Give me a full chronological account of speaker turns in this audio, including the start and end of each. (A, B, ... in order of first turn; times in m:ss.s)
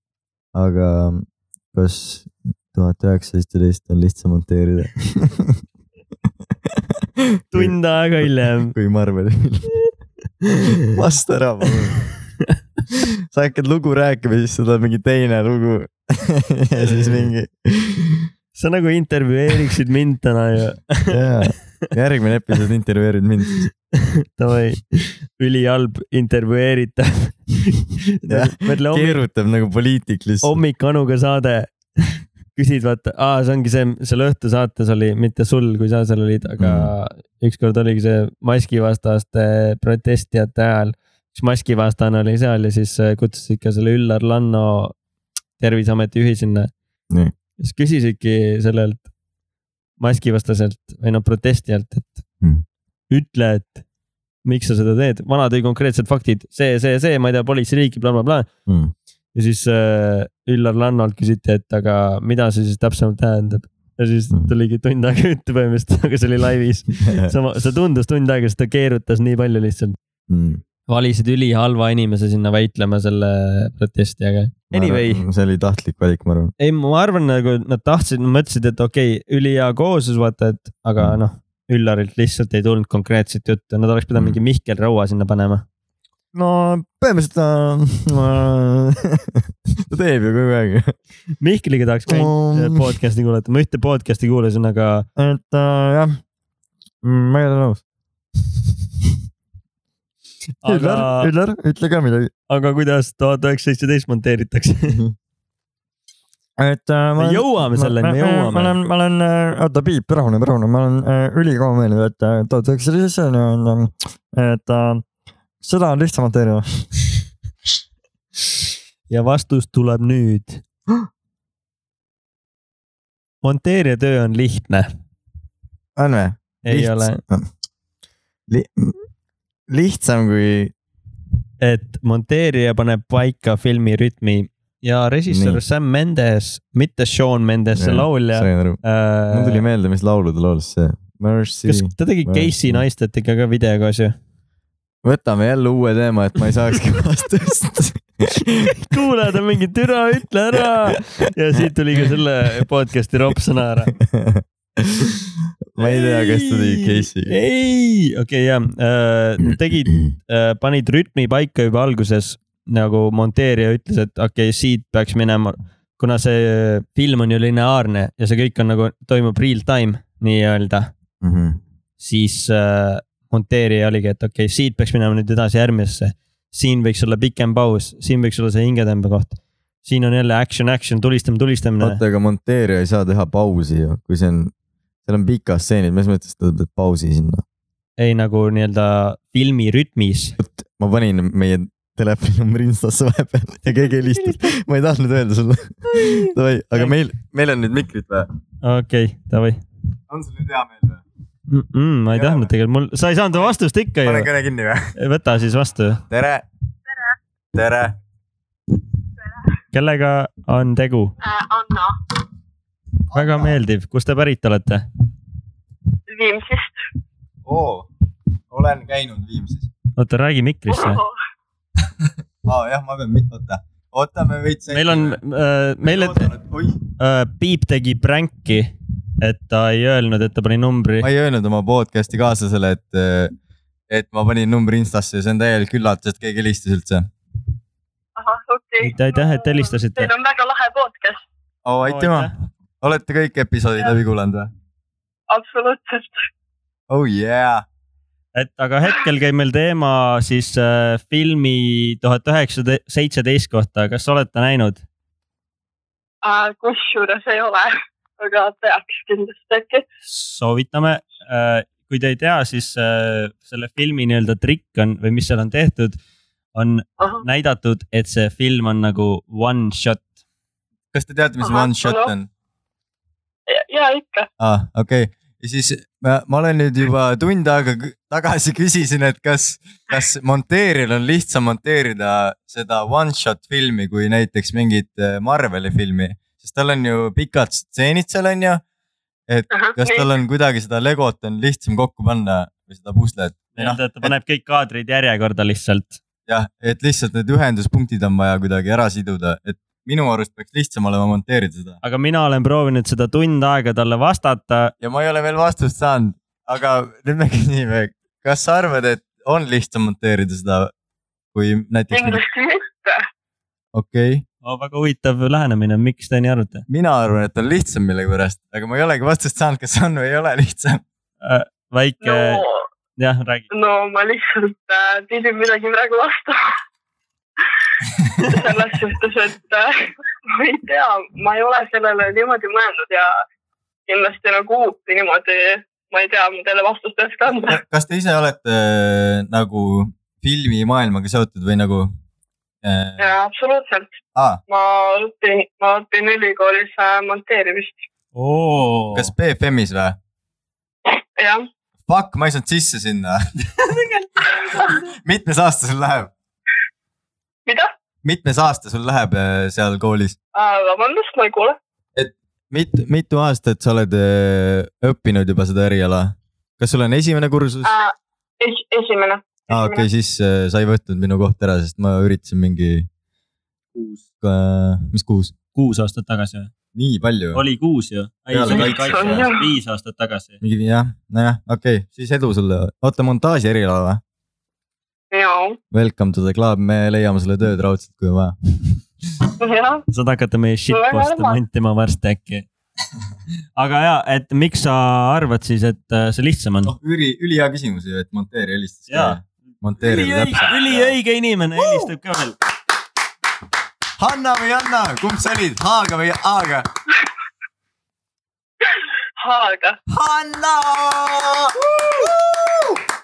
0:00.6-0:05.6 A
0:07.2-0:09.7 A
0:07.5-0:08.7 B
0:10.9-0:12.0 A
0:13.0-0:18.3 A
0:16.8-0:17.3 B
0:18.6-0:21.2 B
0:21.1-0:23.7 A
0:24.0-0:29.2 B
0:28.3-0:30.6 A
0:30.4-0:44.9 B
0:36.6-0:36.9 A
0:45.6-0:46.7 B
0:47.6-0:49.0 B
0:50.0-0:52.2 B
0:53.1-0:53.8 B
0:54.4-0:58.5 B
0:58.7-0:58.9 A
0:59.3-1:10.0 B
1:07.0-1:07.3 A
1:10.3-1:10.6 A
1:10.9-1:15.2 B
1:14.7-1:16.5 A
1:16.6-1:25.6 B
1:26.3-1:29.3 A
1:29.9-1:31.0 A
1:31.4-1:35.1 B
1:32.1-1:32.8 A
1:35.2-1:36.2 A
1:37.0-1:37.8 A
1:40.6-1:41.3 B
1:40.6-1:42.3 A
1:42.5-1:45.0 B
1:46.6-1:55.0 A
1:47.2-1:48.8 B
1:55.6-1:56.8 A
1:59.1-2:00.6 B
2:03.4-2:04.9 B
2:06.0-2:07.5 A
2:06.6-2:07.2 B
2:08.5-2:09.0 A
2:09.7-2:10.7 A
2:11.6-2:19.6 B
2:15.3-2:15.6 A
2:17.8-2:22.8 A
2:21.7-2:24.2 B
2:25.0-2:29.0 A
2:28.8-2:33.9 B
2:34.0-2:35.2 A
2:35.7-2:37.4 A
2:35.8-2:50.9 B
2:39.4-2:40.1 A
2:51.2-2:51.6 A
2:52.0-3:02.0 B
3:01.8-3:04.5 A
3:05.0-3:07.4 A
3:08.0-3:10.3 B
3:10.4-3:18.3 A
3:13.7-3:14.5 B
3:15.9-3:17.0 B
3:18.6-3:19.6 B
3:20.1-3:21.0 A
3:21.5-3:24.3 B
3:22.1-3:22.5 A
3:24.0-3:24.9 A
3:25.0-3:26.0 B
3:26.1-3:26.4 A
3:27.5-3:28.0 A
3:29.7-3:31.1 B
3:31.2-3:32.0 C
3:33.1-3:33.6 A
3:33.1-3:34.8 B
3:36.1-3:36.8 C
3:37.5-3:37.9 A
3:38.5-3:39.7 A
3:40.0-3:41.0 B
3:40.7-3:41.1 C
3:42.4-3:45.2 A
3:44.7-3:46.3 B
3:45.8-3:46.8 A
3:47.0-3:51.1 B
3:51.0-3:53.3 A
3:53.9-3:57.1 A
3:58.2-4:01.3 C
3:58.8-4:00.1 B
4:01.6-4:02.3 A
4:01.8-4:02.3 B
4:02.8-4:04.5 A
4:05.3-4:06.2 C
4:06.9-4:07.6 A
4:08.4-4:14.8 B
4:16.2-4:19.8 C
4:20.1-4:26.0 B
4:26.6-4:30.0 B
4:30.9-4:32.3 A
4:31.4-4:32.1 C
4:33.5-4:34.3 C
4:34.4-4:48.6 A
4:49.3-4:54.1 A
4:49.5-4:50.1 C
4:53.6-4:56.0 B
4:56.3-5:01.8 A
5:01.8-5:04.7 B
5:04.8-5:10.7 A
5:11.3-5:12.2 A
5:11.9-5:13.1 C
5:13.7-5:14.2 A
5:14.4-5:16.6 B
5:16.7-5:20.8 A
5:21.2-5:22.4 B
5:22.0-5:22.6 C
5:23.0-5:23.5 B
5:23.5-5:26.4 C
5:28.2-5:29.7 C
5:30.3-5:33.1 C
5:33.9-5:37.6 C
5:37.5-5:41.9 A
5:42.6-5:43.1 A
5:43.0-5:43.9 C
5:44.5-5:47.8 C
5:48.2-5:49.1 B
5:48.9-5:50.0 A
5:50.9-5:51.4 C
5:51.9-5:53.2 A
5:53.6-5:54.8 B
5:54.6-5:56.1 A
5:58.0-6:00.2 A
6:00.4-6:01.6 C
6:02.0-6:07.7 A
6:07.6-6:09.8 C
6:09.5-6:12.9 A
6:13.8-6:14.0 B
6:14.2-6:15.3 A
6:15.6-6:16.5 B
6:16.7-6:17.4 A
6:17.3-6:20.4 B
6:18.3-6:19.3 A
6:18.5-6:19.4 C
6:20.4-6:24.0 A
6:25.1-6:25.6 C
6:25.7-6:28.8 A
6:29.4-6:29.8 C
6:29.9-6:32.5 B
6:30.7-6:31.4 C
6:33.6-6:36.7 B
6:36.6-6:41.0 A
6:38.9-6:39.2 B
6:39.8-6:42.4 B
6:41.6-6:41.9 A
6:44.0-6:46.7 A
6:49.2-6:49.8 C
6:49.9-6:52.8 A